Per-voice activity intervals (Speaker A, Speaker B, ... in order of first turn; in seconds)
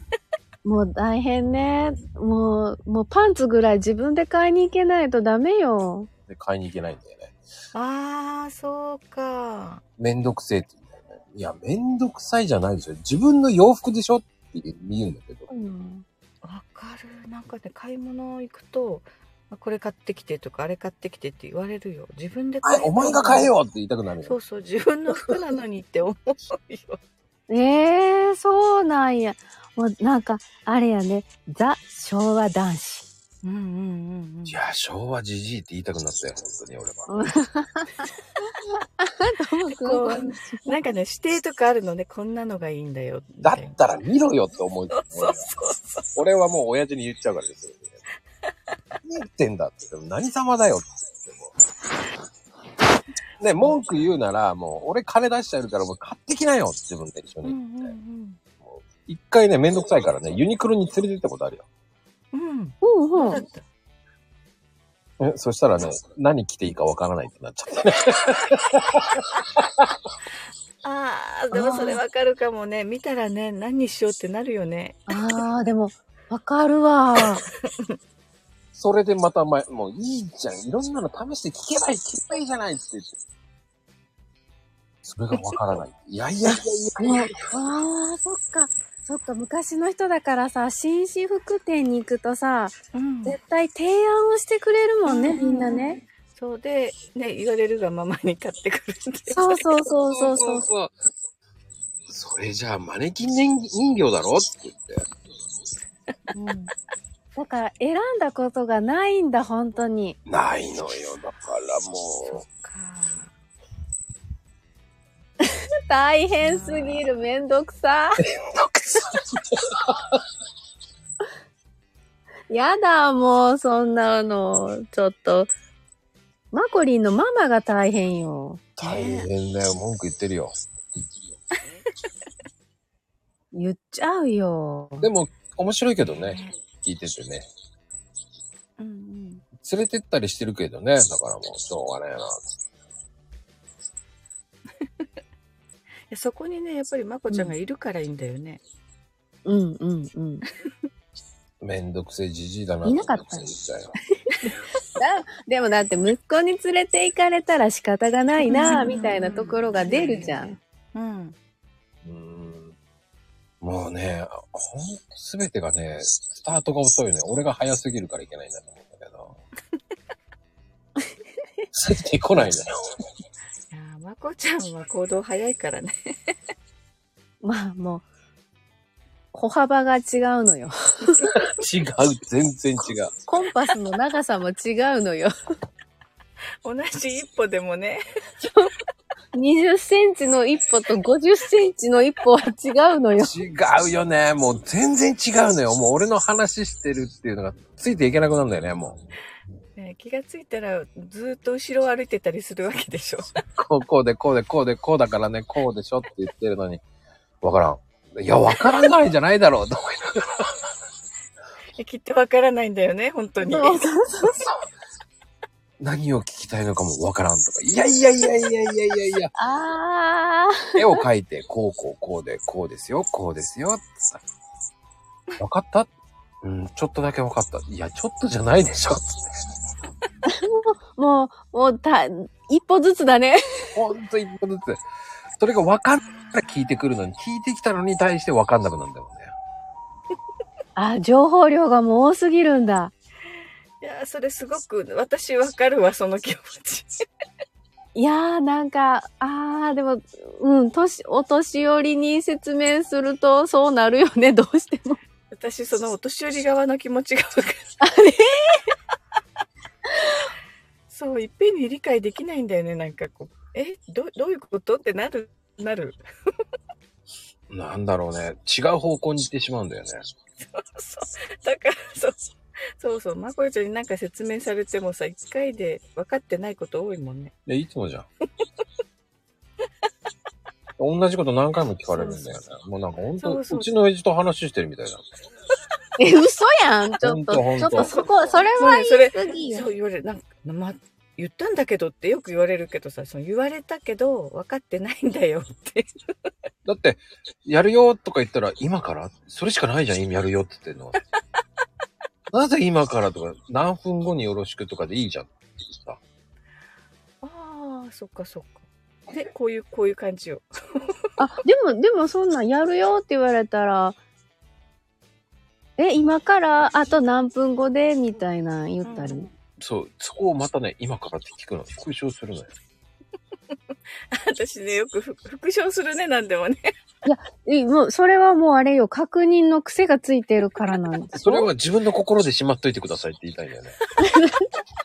Speaker A: 0.6-6.1, 15.5-16.0, 27.5-33.1, 37.1-38.1, 38.6-40.8, 62.8-63.4, 71.5-72.0, 75.1-77.4, 87.0-96.0, 99.3-100.7, 106.3-106.7, 107.3-110.2, 115.9-118.2, 122.5-125.5, 126.5-128.6, 133.5-135.1, 147.3-147.5, 149.4-150.4, 152.8-153.5, 155.0-160.5, 177.4-178.1, 179.3-181.3, 183.3-185.3, 189.3-193.3, 213.5-214.4, 219.4-221.0, 230.3-233.4, 240.8-242.9, 247.9-255.0, 257.8-258.6, 286.0-289.6, 311.2-314.0, 315.8-319.3, 327.0-331.5, 334.0-334.4
Speaker B: 6.3-7.3, 10.0-15.5, 22.6-24.4, 34.5-37.3, 43.4-45.4, 46.1-48.0, 49.0-51.5, 53.4-57.9, 58.6-61.6, 65.2-70.0, 78.7-83.1, 85.0-87.4, 99.9-101.0, 102.1-105.0, 110.3-112.4, 118.4-120.2, 128.8-130.5, 135.0-137.4, 139.6-142.4, 151.6-153.9, 162.0-162.7, 163.6-169.3, 171.7-172.7, 181.3-183.1, 193.2-199.0, 203.6-206.8, 207.4-210.6, 215.8-219.3, 220.8-224.2, 225.4-225.9, 226.4-229.3, 233.7-234.8, 235.4-239.3, 267.5-270.0, 277.4-278.1, 280.8-285.1, 287.0-287.9, 296.6-301.0, 302.3-306.0, 319.6-322.5, 331.1-333.8
Speaker C: 7.7-9.8, 16.4-23.5, 24.2-27.0, 33.4-34.6, 39.8-43.8, 44.9-46.0, 53.6-54.1, 57.4-58.4, 62.3-63.6, 70.8-75.4, 77.6-78.0, 85.3-85.6, 92.9-93.4, 95.0-99.6, 112.2-113.3, 116.4-117.0, 128.8-129.3, 136.0-136.6, 138.8-139.4, 146.1-148.6, 158.5-161.3, 173.7-176.3, 186.6-188.0, 199.8-203.4, 211.8-213.9, 236.0-236.5, 243.8-246.9, 255.3-257.8, 260.9-266.0, 270.5-272.2, 272.8-277.3, 283.2-283.7, 287.7-295.9, 307.2-310.9, 318.8-319.3, 324.1-326.7